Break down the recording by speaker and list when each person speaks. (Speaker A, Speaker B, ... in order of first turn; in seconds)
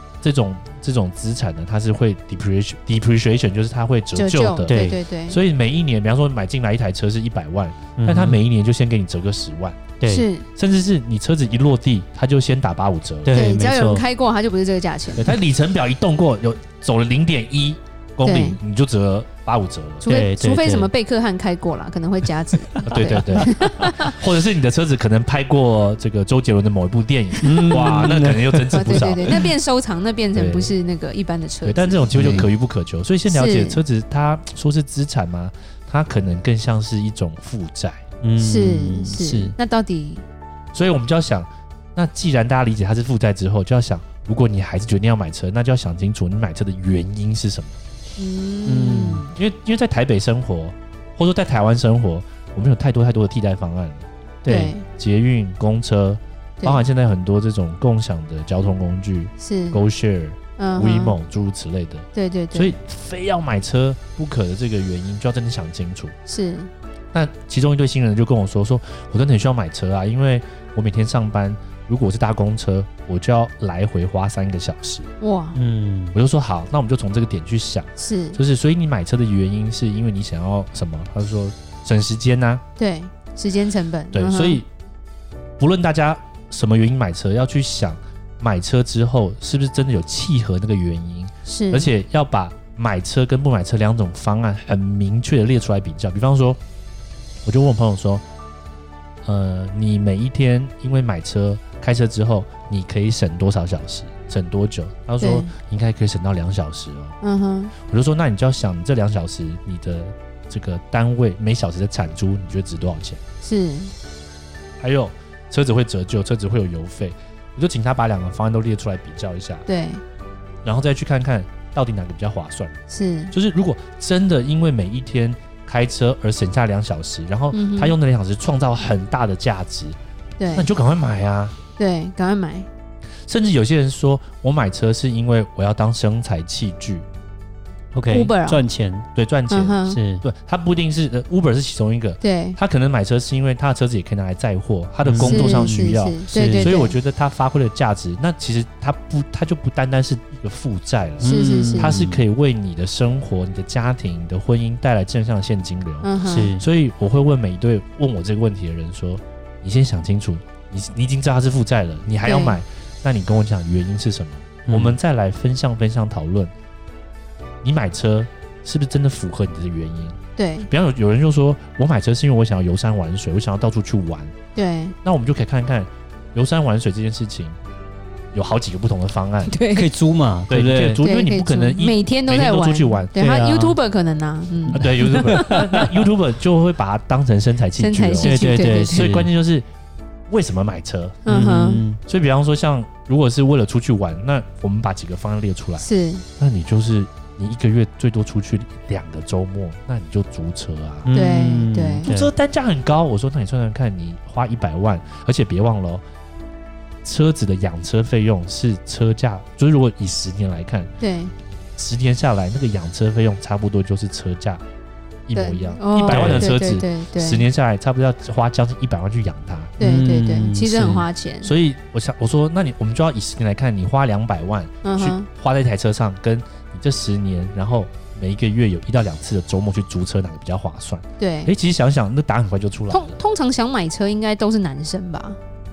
Speaker A: 0.2-9.9, 10.6-13.3, 15.2-20.1, 22.9-29.3, 30.3-30.7, 31.6-38.0, 40.7-47.8, 49.3-54.0, 54.9-66.1, 67.1-75.1, 76.1-82.6, 84.1-84.7, 85.6-96.6, 97.4-98.2, 99.2-107.1, 107.8-113.2, 114.8-119.6, 120.6-122.7, 123.3-130.0, 130.5-131.6, 133.3-137.0, 139.1-166.5, 167.6-174.3, 175.0-177.6, 178.3-179.5, 180.5-183.1, 184.8-189.7, 190.3-191.4, 192.0-195.8, 196.4-201.1, 202.0-206.0, 207.0-210.9, 211.8-214.6, 215.3-219.7, 221.4-233.1
Speaker B: 4.1-5.4, 10.1-10.5, 13.3-15.4, 18.2-18.6, 20.0-24.1, 28.7-32.5, 33.3-33.8, 38.4-40.2, 48.2-49.3, 54.5-54.8, 59.4-59.8, 60.6-61.1, 62.1-62.7, 66.3-66.7, 75.2-75.6, 78.0-78.4, 82.8-84.6, 91.5-91.9, 105.2-105.5, 107.2-107.7, 113.4-113.9, 119.7-120.0, 122.9-123.3, 127.5-127.9, 130.4-130.7, 131.8-132.7, 138.1-138.7, 139.5-140.0, 142.2-142.6, 145.2-146.9, 151.2-152.0, 156.0-156.5, 162.2-162.6, 170.4-170.7, 174.5-174.9, 179.5-179.9, 181.0-185.4, 187.8-189.1, 191.2-191.8, 195.8-196.2, 201.1-202.1, 211.0-211.3, 215.3-217.5, 219.8-221.5, 224.8-225.2, 231.2-231.5, 232.9-235.4
Speaker C: 4.7-5.0, 8.0-8.4, 10.0-10.2, 13.2-14.0, 20.0-20.9, 22.9-23.7, 27.4-29.3, 32.1-32.5, 38.2-39.5, 48.6-49.2, 54.4-54.8, 75.5-76.2, 137.9-139.1, 139.9-140.2, 145.0-146.7, 151.2-152.2, 156.2-156.6, 164.7-165.0, 179.7-181.0, 183.2-183.8, 184.7-185.9, 188.2-189.3, 191.3-192.0, 201.0-202.3, 216.1-216.5, 219.8-221.1